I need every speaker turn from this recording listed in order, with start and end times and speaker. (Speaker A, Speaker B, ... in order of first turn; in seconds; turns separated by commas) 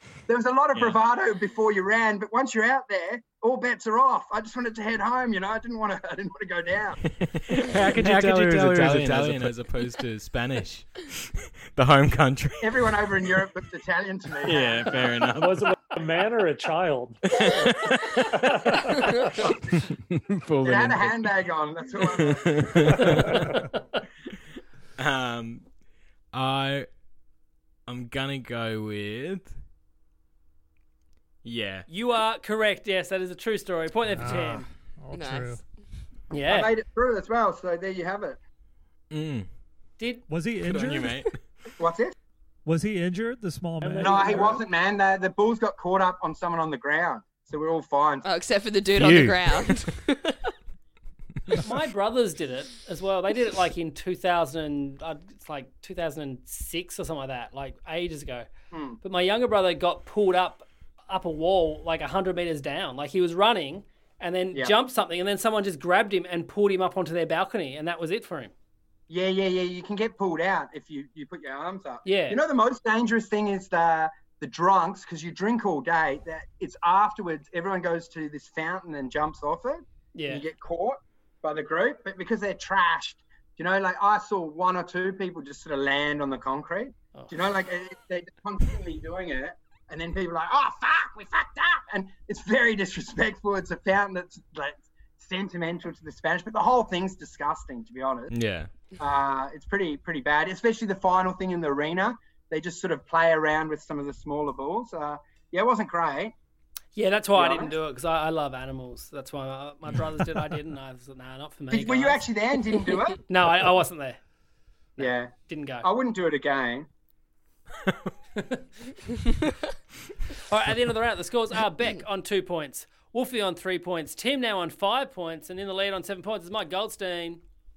Speaker A: 0.3-7.0, Speaker B: 7.2-13.4, Speaker A: 12.6-15.2, Speaker B: 14.4-15.7, Speaker C: 15.3-17.2, Speaker B: 17.3-18.2, Speaker C: 18.4-19.1, Speaker A: 19.4-19.7, Speaker B: 19.7-21.3, Speaker A: 20.6-23.4, Speaker B: 22.0-23.6, Speaker B: 25.0-25.6, Speaker B: 26.3-26.9, Speaker B: 27.9-29.6, Speaker B: 31.4-31.9, Speaker D: 31.9-34.6, Speaker E: 34.1-35.6, Speaker F: 35.1-35.6, Speaker D: 36.3-36.7, Speaker A: 36.5-38.4, Speaker B: 39.1-39.5, Speaker D: 40.0-40.2, Speaker E: 40.3-41.2, Speaker B: 40.6-41.4, Speaker A: 41.8-42.1, Speaker E: 42.6-44.5, Speaker C: 43.8-44.6, Speaker A: 44.0-48.2, Speaker F: 48.2-50.5, Speaker B: 49.0-49.6, Speaker D: 51.6-58.5, Speaker A: 58.7-59.0, Speaker D: 59.0-68.5, Speaker A: 69.1-98.3, Speaker D: 72.0-72.4, Speaker D: 80.1-80.4, Speaker B: 98.3-98.7, Speaker A: 99.0-106.3, Speaker D: 107.0-112.2, Speaker A: 107.3-107.7, Speaker A: 111.7-113.2, Speaker D: 113.3-114.2, Speaker A: 115.0-115.3, Speaker D: 115.0-115.8, Speaker A: 115.8-116.9, Speaker D: 118.3-118.6, Speaker D: 120.5-127.4